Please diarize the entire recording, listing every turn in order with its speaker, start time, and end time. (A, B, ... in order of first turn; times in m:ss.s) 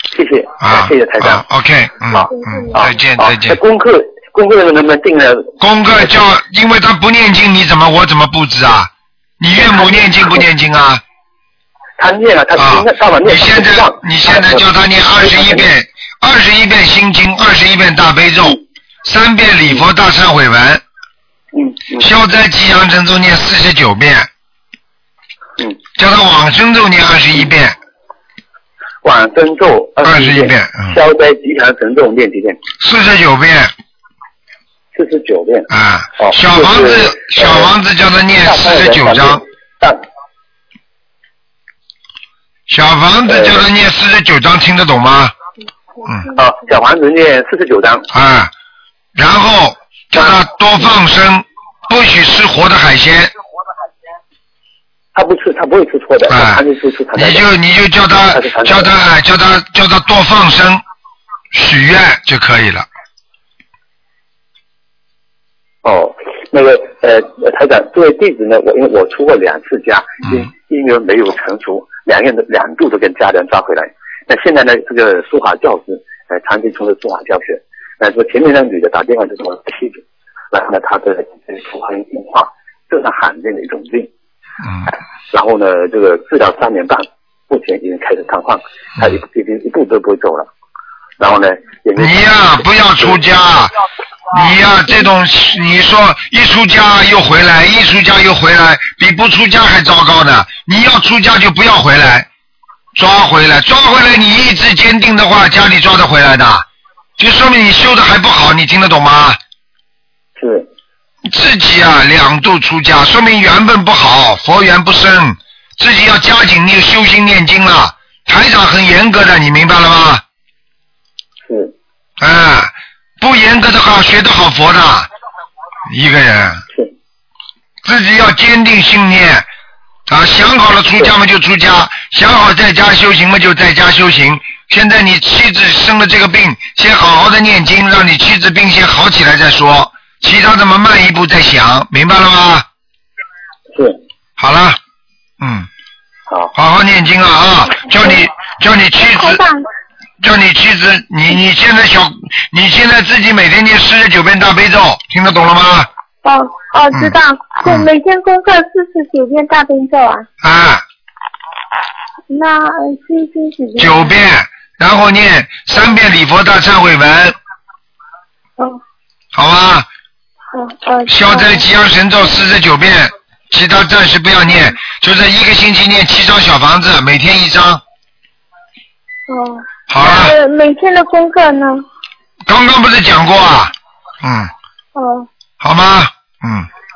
0:00.1-0:01.4 A
0:00.6-0:03.6 B
0:02.1-0:05.5 A
0:02.3-0:02.7 C
0:05.6-0:11.0 B
0:09.6-0:10.3 A
0:12.0-0:14.6 A
0:12.6-0:20.8 B
0:15.2-0:15.7 A
0:21.5-0:22.1 A
0:22.0-0:24.3 B
0:26.0-0:27.8 B
0:29.0-0:32.6 A
0:30.0-0:31.0 B
0:32.8-0:33.7 B
0:34.9-0:37.7 A
0:35.7-0:39.4 B
0:38.4-0:40.0 A
0:42.7-0:45.3 B
0:43.3-0:43.6 A
0:46.3-0:48.1 A
0:48.1-0:48.5 B
0:49.2-0:53.3 B
0:55.1-0:57.4 A
0:56.3-0:56.6 B
0:57.1-1:00.8 B
0:58.3-0:58.9 A
1:01.5-1:02.9 B
1:05.8-1:24.1 A
1:24.6-1:24.9 B
1:25.3-1:30.5 A
1:31.2-1:33.2 A
1:32.0-1:33.7 B
1:34.3-1:42.3 B
1:42.9-1:46.6 B
1:47.2-1:49.4 B
1:50.4-1:50.7 A
1:51.2-2:00.2 B
2:01.4-2:01.7 A
2:02.2-2:05.1 B
2:05.9-2:06.6 B
2:07.8-2:09.5 B
2:10.1-2:22.6 B
2:23.7-2:24.0 A
2:24.4-2:24.8 B
2:25.4-2:25.7 B
2:26.5-2:29.4 B
2:29.0-2:29.6 C
2:30.2-2:35.9 B
2:36.2-2:40.3 C
2:36.9-2:37.9 B
2:40.4-2:40.8 B
2:42.3-2:44.1 C
2:43.8-2:47.3 B
2:49.3-2:49.9 B
2:50.5-2:51.6 C
2:51.1-2:57.8 B
2:59.3-3:01.8 C
2:59.9-3:00.3 B
3:02.5-3:04.5 B
3:05.0-3:05.3 C
3:05.6-3:06.7 B